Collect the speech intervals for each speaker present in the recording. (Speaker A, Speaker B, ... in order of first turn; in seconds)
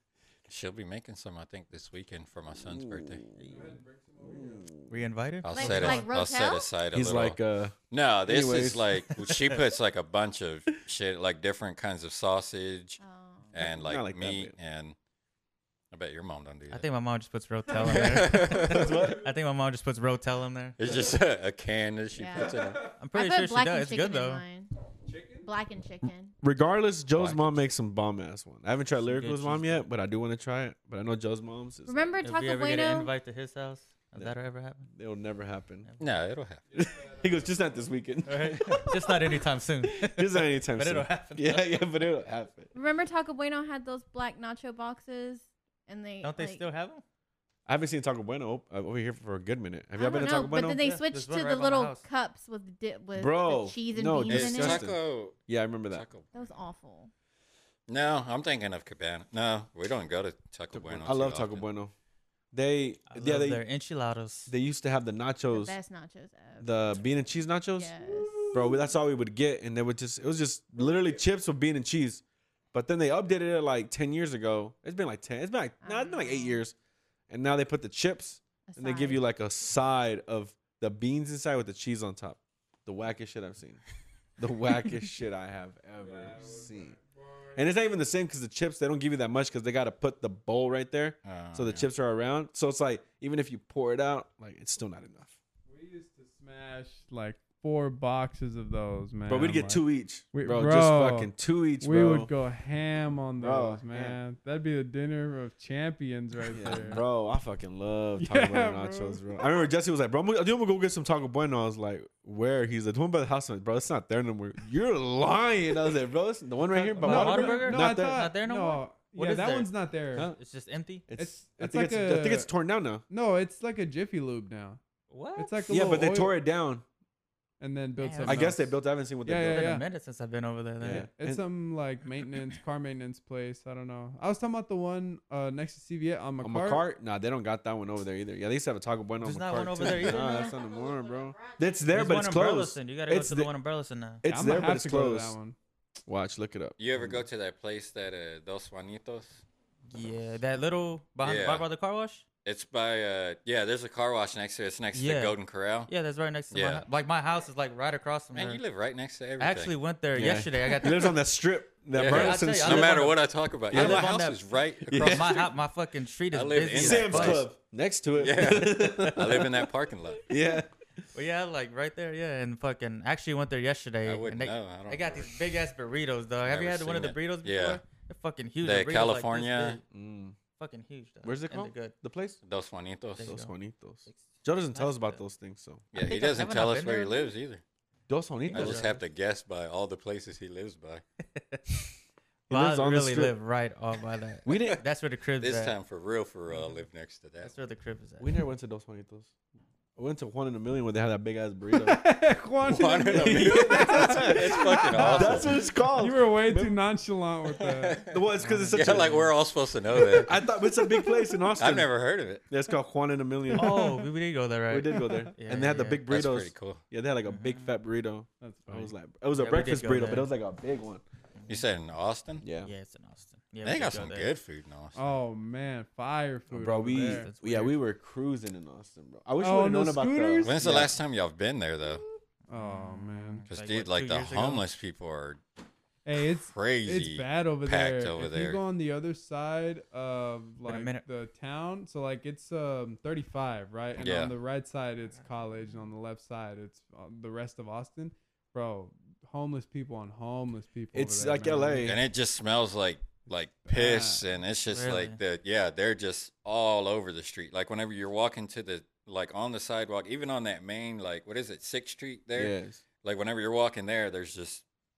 Speaker A: 0.5-3.2, 5.4-7.4, 7.9-13.0, 13.5-14.9, 15.9-16.9, 17.7-19.0, 20.8-22.8, 27.2-27.6, 36.0-36.6, 54.3-56.5, 57.9-61.6, 91.2-91.8, 146.8-149.4, 151.2-151.7, 152.4-155.9, 156.5-156.8, 158.3-159.7, 161.9-165.5, 166.3-167.5, 168.2-170.2, 174.0-175.3, 176.4-177.8, 178.6-179.8, 182.4-183.3, 185.9-187.6, 188.5-191.0, 195.4-197.5, 202.6-205.6, 207.5-208.1, 208.7-210.4, 211.6-212.4, 216.1-216.8, 221.5-222.4, 223.6-225.1, 230.4-232.0, 233.5-235.4, 236.5-238.6, 244.0-244.3, 251.8-264.6
Speaker B: 2.7-3.6, 4.2-4.9, 6.9-9.0, 13.6-14.5, 18.5-19.3, 26.4-32.2, 34.9-35.9, 36.7-42.7, 47.6-50.9, 53.1-56.0, 60.7-61.9, 62.5-63.6, 64.5-65.8, 66.6-67.9, 68.5-72.2, 72.7-76.7, 77.3-83.8, 84.4-87.0, 87.5-95.4, 99.3-102.3, 103.4-104.2, 106.5-118.2, 121.1-123.0, 125.7-126.8, 128.2-129.7, 130.8-131.4, 136.4-143.5, 144.2-145.3, 146.1-147.2, 160.1-163.0, 163.7-164.2, 164.8-165.4, 166.7-169.7, 170.3-170.7, 179.9-180.3, 181.2-182.4, 183.2-185.8, 188.1-188.9, 192.5-193.3, 194.4-194.8, 198.2-199.3, 199.9-202.0, 203.1-206.8, 208.1-209.2, 210.1-211.9, 212.5-214.0, 214.7-221.0, 222.4-222.7, 226.5-230.9, 250.9-252.0, 262.3-262.8
Speaker C: 3.4-4.7, 22.6-23.0, 25.1-25.5, 36.7-37.9, 86.0-87.6, 95.7-107.0, 108.2-109.3, 116.7-120.3, 121.2-122.5, 123.1-124.8, 125.3-126.3, 127.6-129.8, 130.9-136.8, 144.3-145.6, 201.7-208.1, 218.4-218.9, 224.9-227.3, 229.4-230.5, 232.5-233.4, 236.0-251.9, 253.6-254.2
Speaker D: 4.9-6.1, 9.1-9.6, 16.7-20.8, 23.0-24.4, 28.9-29.8, 32.2-34.9, 35.8-36.1, 38.2-41.9, 46.2-47.0, 50.5-52.0, 63.1-64.5, 116.8-121.0, 125.1-125.6, 128.0-128.5, 129.4-131.1, 139.2-140.5, 141.9-144.2, 149.9-152.2, 154.9-158.6, 159.4-161.2, 162.0-163.2, 163.7-167.4, 171.1-179.8, 180.6-181.9, 183.2-183.5, 184.1-185.2, 185.9-187.3, 188.5-189.0, 191.3-191.8, 192.5-195.8, 196.5-196.8, 197.4-198.4, 205.1-205.4, 208.4-209.3, 213.6-216.0, 217.2-217.7, 219.3-220.3, 221.4-221.6, 222.6-224.3, 226.8-227.8, 232.5-234.6, 240.6-241.0, 254.7-255.2
Speaker E: 5.5-6.7, 13.0-13.6, 22.1-22.6, 23.1-24.7, 25.4-26.3, 31.9-33.1, 42.7-46.6, 49.9-54.9, 56.3-57.1, 65.5-66.9, 67.7-68.8, 75.8-76.6, 78.7-79.2, 139.9-141.8